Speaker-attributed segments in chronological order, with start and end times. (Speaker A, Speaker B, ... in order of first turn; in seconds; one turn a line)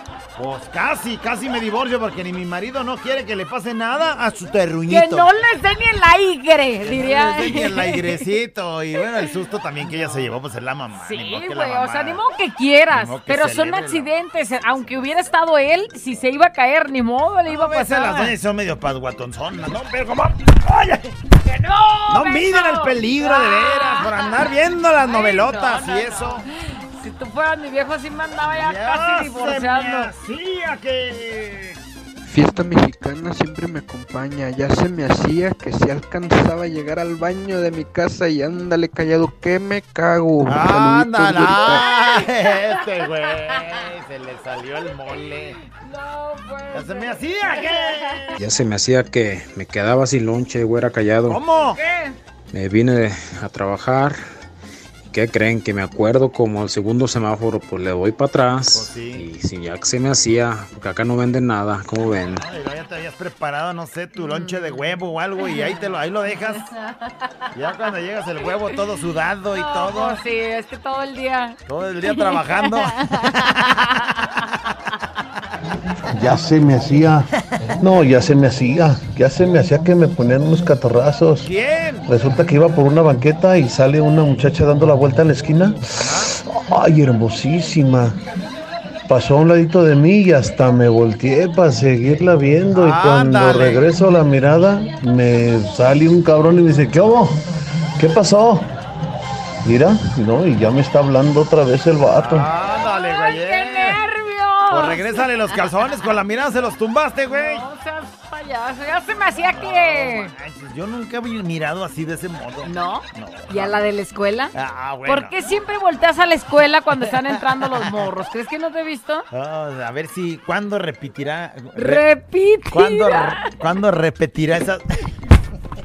Speaker A: 0.3-5.3
Speaker B: 4.9-8.2
Speaker A: 6.8-12.2
Speaker B: 10.9-18.3
Speaker A: 12.9-14.1
Speaker A: 17.4-21.1
Speaker B: 21.4-24.5
Speaker A: 22.1-26.4
Speaker B: 25.0-30.1
Speaker A: 28.5-31.8
Speaker C: 32.2-41.8
Speaker A: 40.5-45.6
Speaker B: 41.6-43.1
Speaker B: 45.6-48.4
Speaker A: 46.7-48.4
Speaker D: 48.4-51.4
Speaker A: 51.3-51.8
Speaker B: 51.7-52.2
Speaker D: 52.5-54.2
Speaker D: 55.1-62.4
Speaker A: 58.7-59.2
Speaker A: 62.3-66.6
Speaker B: 64.2-64.7
Speaker B: 65.4-65.8
Speaker B: 66.6-67.3
Speaker A: 67.5-70.2
Speaker B: 69.5-71.6
Speaker A: 71.7-73.6
Speaker B: 72.1-74.1
Speaker E: 76.2-77.1
Speaker E: 77.8-81.3
Speaker A: 81.4-82.1
Speaker E: 82.1-85.7
Speaker A: 85.9-86.3
Speaker E: 86.6-88.1
Speaker E: 89.1-97.3
Speaker A: 92.7-93.9
Speaker E: 98.0-98.6
Speaker E: 99.7-102.4
Speaker A: 102.1-104.0
Speaker B: 102.7-105.2
Speaker A: 104.7-107.6
Speaker B: 107.3-110.3
Speaker A: 109.5-113.9
Speaker B: 112.6-114.5
Speaker A: 114.5-115.4
Speaker B: 115.0-119.2
Speaker A: 117.0-118.1
Speaker A: 119.3-122.0
Speaker B: 121.8-123.5
Speaker A: 122.7-124.9